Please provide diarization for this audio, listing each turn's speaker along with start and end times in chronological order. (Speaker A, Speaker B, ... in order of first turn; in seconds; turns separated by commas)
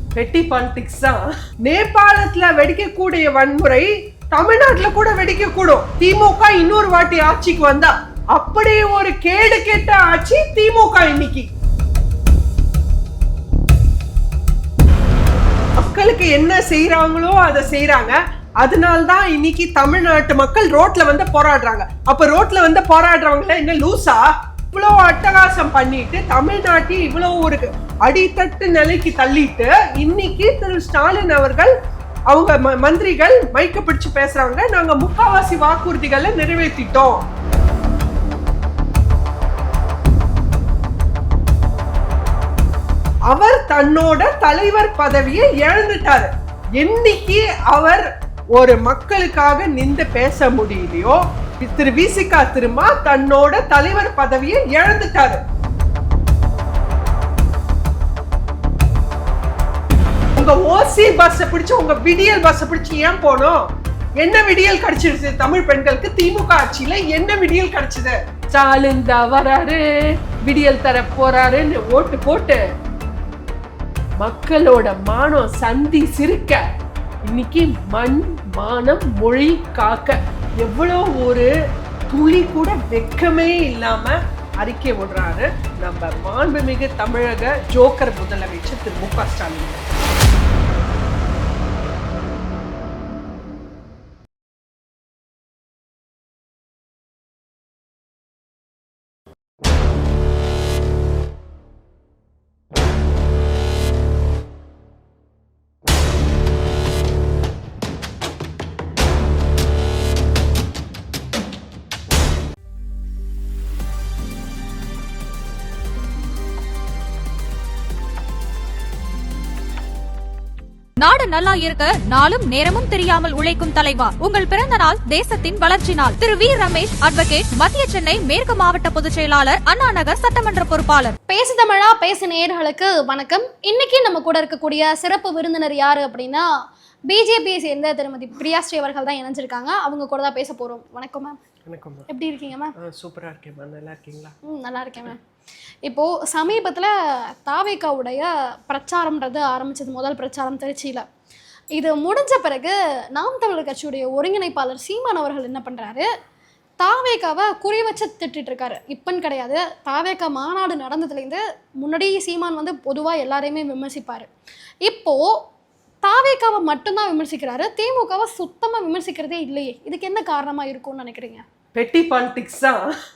Speaker A: 0.1-11.5, Speaker A: 15.8-31.7, Speaker A: 32.3-37.2, Speaker A: 43.3-55.4, Speaker A: 60.4-63.6, Speaker A: 64.2-69.8, Speaker A: 70.4-72.6, Speaker A: 74.2-76.6, Speaker A: 77.3-81.5, Speaker A: 82.1-89.8, Speaker B: 121.0-131.1, Speaker C: 131.3-136.4, Speaker C: 137.1-141.4, Speaker A: 141.7-142.1, Speaker C: 142.1-142.7, Speaker A: 142.8-144.3, Speaker C: 144.5-145.2, Speaker C: 145.8-146.9, Speaker C: 147.4-151.0, Speaker C: 151.8-156.1, Speaker C: 156.8-164.3, Speaker C: 164.8-165.2, Speaker C: 166.0-171.4, Speaker A: 171.7-172.8